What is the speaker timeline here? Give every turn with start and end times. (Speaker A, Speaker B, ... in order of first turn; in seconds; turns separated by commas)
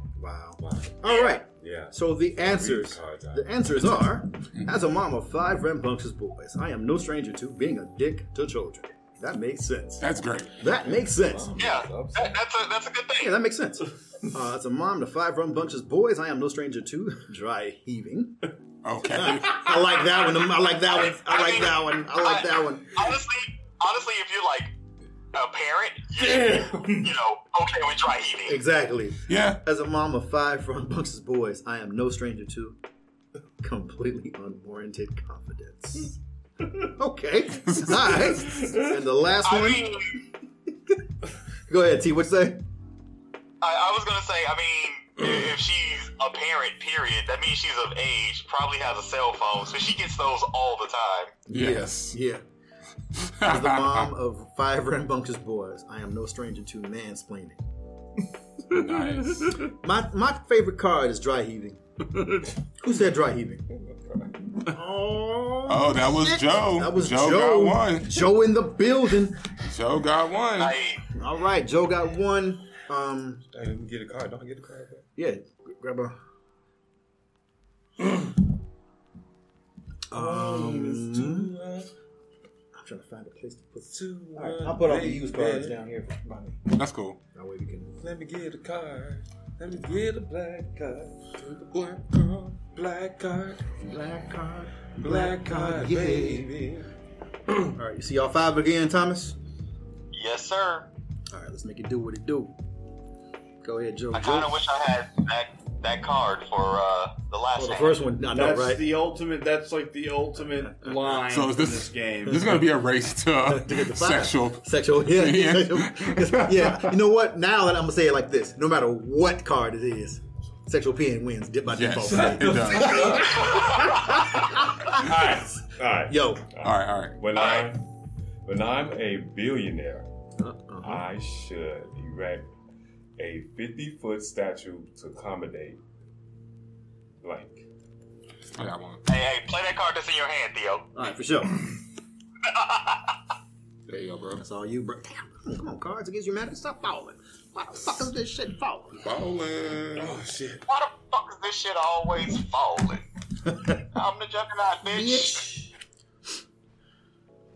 Speaker A: 0.2-10.0, Speaker B: 0.6-1.0, Speaker C: 1.1-1.4, Speaker B: 1.5-4.0, Speaker D: 10.0-10.6, Speaker A: 10.6-11.5, Speaker B: 10.9-12.4, Speaker C: 11.6-13.4, Speaker A: 13.2-18.4, Speaker D: 18.8-19.7, Speaker A: 19.0-23.0, Speaker C: 20.9-24.7, Speaker C: 25.3-28.6, Speaker E: 26.1-27.1, Speaker A: 28.5-32.8, Speaker D: 29.3-29.6, Speaker A: 33.6-36.1, Speaker A: 36.9-40.0, Speaker D: 37.6-38.4, Speaker C: 39.4-40.2, Speaker A: 41.7-42.6, Speaker C: 43.6-51.3, Speaker A: 51.5-52.4, Speaker D: 51.5-52.2, Speaker D: 53.2-54.1, Speaker A: 53.4-57.6, Speaker D: 58.7-59.6, Speaker A: 59.6-61.8, Speaker A: 62.4-63.6, Speaker B: 63.7-64.5, Speaker A: 64.6-69.4, Speaker D: 65.7-68.2, Speaker D: 69.6-70.8, Speaker C: 70.6-71.0, Speaker A: 71.1-73.4, Speaker B: 73.5-75.0, Speaker A: 75.2-76.2, Speaker A: 80.1-81.5, Speaker B: 80.1-81.9, Speaker A: 82.7-86.6, Speaker B: 83.9-85.8, Speaker D: 86.7-87.2, Speaker A: 87.3-87.9, Speaker B: 88.0-93.7, Speaker A: 93.8-96.5, Speaker B: 95.0-96.9, Speaker A: 97.7-99.4, Speaker C: 100.1-100.9, Speaker A: 101.3-102.5, Speaker A: 103.6-104.7, Speaker C: 104.1-108.0, Speaker A: 107.5-108.9, Speaker E: 108.3-112.6, Speaker D: 111.1-116.9, Speaker A: 113.4-125.2, Speaker D: 121.7-123.3, Speaker B: 122.0-127.9, Speaker C: 123.3-124.2, Speaker A: 126.1-126.4, Speaker D: 126.6-127.2, Speaker C: 127.3-127.7, Speaker B: 128.4-130.1, Speaker A: 130.4-131.0, Speaker B: 130.8-132.5, Speaker B: 133.2-135.8, Speaker B: 137.2-137.7, Speaker D: 138.5-139.0, Speaker C: 139.1-140.9, Speaker A: 140.9-141.6, Speaker C: 142.4-143.1, Speaker D: 143.9-144.4, Speaker A: 144.4-149.0, Speaker D: 149.0-150.1, Speaker B: 149.9-150.6, Speaker C: 150.7-153.0, Speaker C: 153.8-155.5, Speaker A: 154.8-155.7